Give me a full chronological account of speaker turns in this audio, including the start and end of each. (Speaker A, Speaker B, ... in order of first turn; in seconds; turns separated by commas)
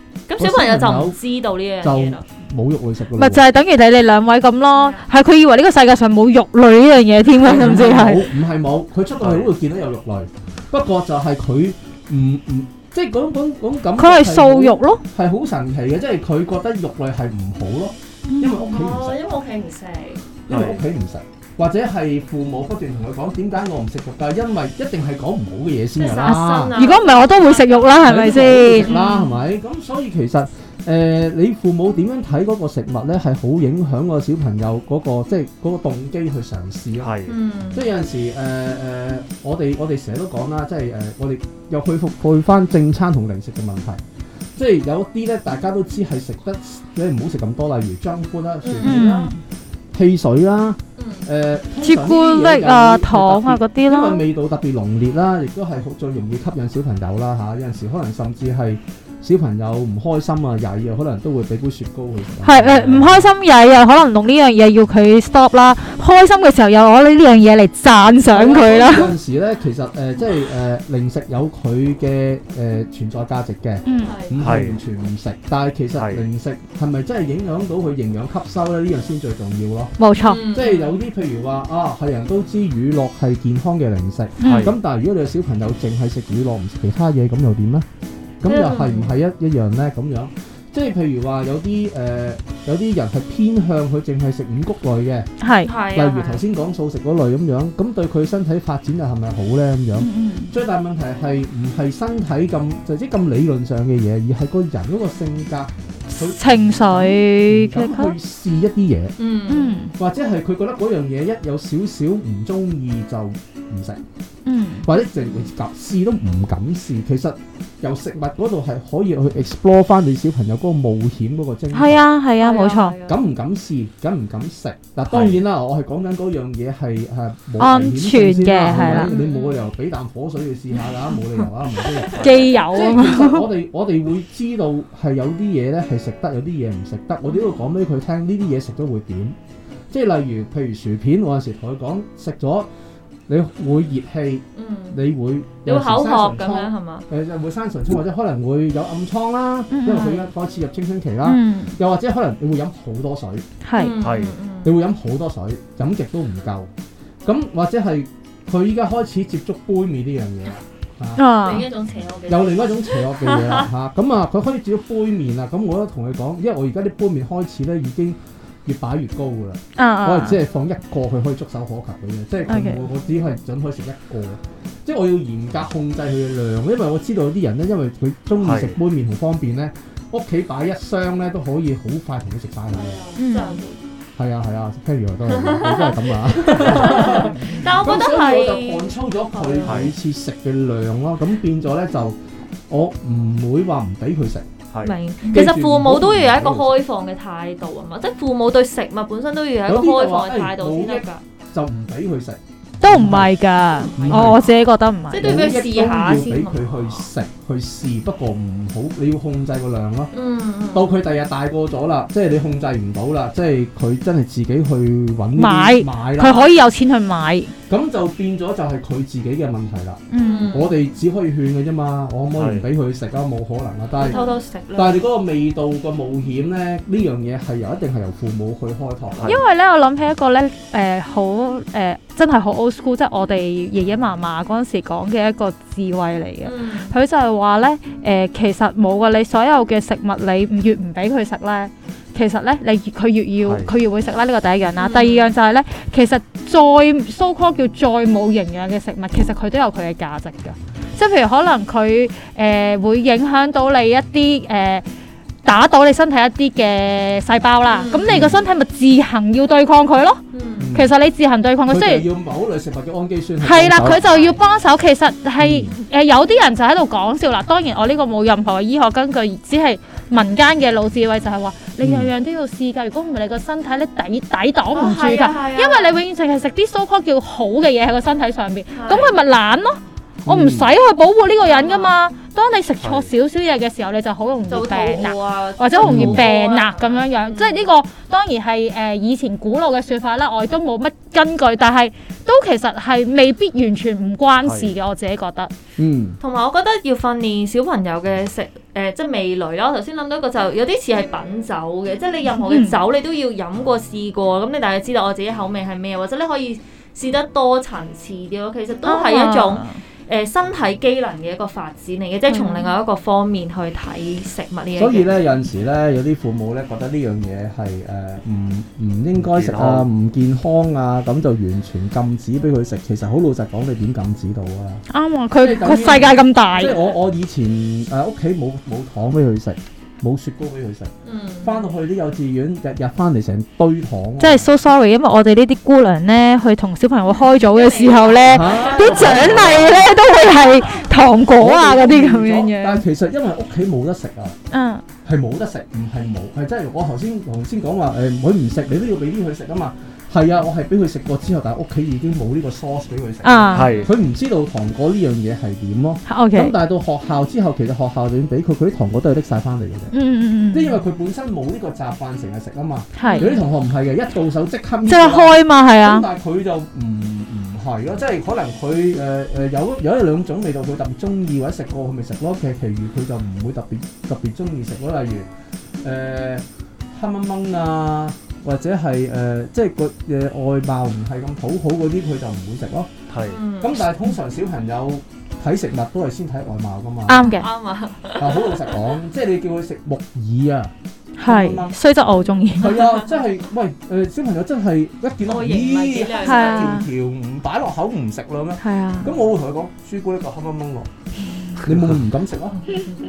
Speaker A: 0.3-2.2, Speaker B: 0.4-1.2, Speaker B: 1.8-3.4, Speaker C: 3.1-8.2, Speaker A: 4.7-5.0, Speaker B: 7.4-19.2, Speaker D: 9.2-9.5, Speaker C: 14.0-15.0, Speaker C: 18.3-18.8, Speaker A: 18.7-20.2, Speaker B: 20.5-26.8, Speaker D: 20.5-20.8, Speaker A: 25.9-29.4, Speaker C: 26.1-28.9, Speaker B: 28.0-37.1, Speaker D: 37.0-37.3, Speaker A: 37.3-37.9, Speaker B: 37.7-44.0, Speaker B: 44.5-49.3, Speaker A: 48.6-49.0, Speaker C: 48.8-49.4, Speaker B: 49.9-63.3, Speaker A: 51.0-51.2, Speaker C: 51.8-54.2, Speaker C: 62.4-69.1, Speaker B: 68.3-80.0, Speaker C: 73.8-74.1, Speaker A: 74.0-74.3, Speaker D: 74.4-74.8, Speaker D: 76.0-76.2, Speaker C: 80.0-80.6, Speaker A: 80.2-80.9, Speaker B: 80.5-87.8, Speaker D: 84.4-84.7, Speaker C: 84.4-84.7, Speaker B: 88.4-95.3, Speaker A: 88.4-89.1, Speaker C: 95.4-95.7, Speaker A: 95.6-96.4, Speaker B: 95.9-109.1, Speaker C: 100.0-100.5, Speaker C: 106.1-108.1, Speaker A: 109.2-109.8, Speaker C: 109.5-109.9, Speaker B: 110.0-114.0, Speaker C: 114.5-114.9, Speaker B: 114.8-122.0, Speaker C: 121.7-123.0, Speaker A: 122.4-123.2, Speaker B: 123.1-139.3, Speaker D: 125.1-125.4, Speaker C: 127.6-129.1, Speaker A: 128.8-129.7, Speaker A: 131.8-132.8, Speaker D: 132.1-132.5, Speaker C: 132.1-133.4, Speaker A: 137.3-137.5, Speaker B: 139.9-142.7, Speaker B: 143.3-153.4, Speaker A: 144.5-145.0, Speaker A: 145.6-147.1, Speaker C: 149.7-150.3, Speaker C: 151.2-151.8, Speaker C: 153.6-153.9, Speaker A: 153.8-154.7, Speaker D: 154.0-154.3, Speaker B: 154.6-156.7, Speaker B: 157.2-161.4, Speaker C: 161.2-161.7, Speaker A: 161.4-163.7, Speaker B: 162.3-183.0, Speaker C: 169.8-170.4, Speaker C: 172.5-172.8, Speaker D: 178.4-178.8, Speaker A: 182.7-183.8, Speaker C: 183.2-183.6, Speaker B: 184.2-192.2, Speaker A: 185.2-189.9, Speaker D: 189.6-189.9, Speaker B: 192.7-194.4, Speaker A: 194.8-201.2, Speaker B: 195.3-196.8, Speaker B: 199.7-203.3, Speaker C: 202.8-205.4, Speaker A: 203.7-204.5, Speaker B: 204.0-204.4, Speaker A: 205.1-207.1, Speaker B: 205.2-210.1, Speaker A: 210.1-210.9, Speaker B: 210.7-216.5, Speaker C: 215.3-217.5, Speaker B: 217.7-224.2, Speaker C: 220.1-220.7, Speaker A: 220.2-220.7, Speaker D: 222.3-222.7, Speaker A: 224.0-225.0, Speaker C: 224.1-224.3, Speaker B: 224.7-229.4, Speaker D: 229.1-229.4, Speaker C: 229.2-254.8, Speaker A: 236.4-236.9, Speaker D: 243.4-243.7, Speaker A: 244.8-245.3, Speaker C: 255.4-260.2, Speaker A: 257.7-258.3, Speaker B: 258.1-258.4, Speaker A: 260.3-260.7, Speaker B: 260.6-260.9, Speaker C: 260.7-262.0, Speaker B: 261.6-264.0, Speaker C: 263.4-295.5, Speaker A: 263.8-264.4, Speaker B: 265.4-265.7, Speaker B: 271.8-272.1, Speaker A: 274.7-276.0, Speaker A: 278.7-279.2, Speaker B: 280.2-280.7, Speaker A: 281.4-281.9, Speaker D: 282.8-283.1, Speaker A: 284.5-287.7, Speaker B: 285.8-286.2, Speaker D: 294.4-294.7, Speaker B: 295.8-296.2, Speaker A: 296.2-315.1, Speaker C: 302.4-302.8, Speaker C: 308.9-309.8, Speaker C: 312.3-312.7, Speaker B: 314.8-324.8, Speaker D: 319.2-319.9, Speaker C: 324.9-326.8, Speaker B: 325.3-330.9, Speaker A: 331.0-331.7, Speaker B: 331.4-334.5, Speaker C: 334.2-342.8, Speaker A: 337.1-340.9, Speaker B: 338.3-339.9, Speaker B: 341.4-344.4, Speaker C: 344.5-344.8, Speaker B: 345.0-359.9, Speaker C: 353.2-353.7, Speaker D: 353.5-353.9, Speaker A: 353.6-354.0, Speaker C: 356.1-356.5, Speaker C: 359.9-360.8, Speaker B: 360.5-375.3, Speaker C: 363.0-363.3, Speaker A: 363.0-363.4, Speaker C: 364.9-366.1, Speaker B: 375.8-382.9, Speaker D: 383.1-383.4, Speaker A: 383.3-383.8, Speaker B: 383.6-387.3, Speaker C: 387.1-387.5, Speaker A: 387.2-388.9, Speaker B: 388.2-390.7, Speaker C: 391.2-393.0, Speaker B: 391.2-391.8, Speaker A: 392.1-393.1, Speaker B: 392.6-400.9, Speaker A: 395.2-396.8, Speaker C: 396.2-396.9, Speaker C: 398.6-399.1, Speaker B: 401.6-402.8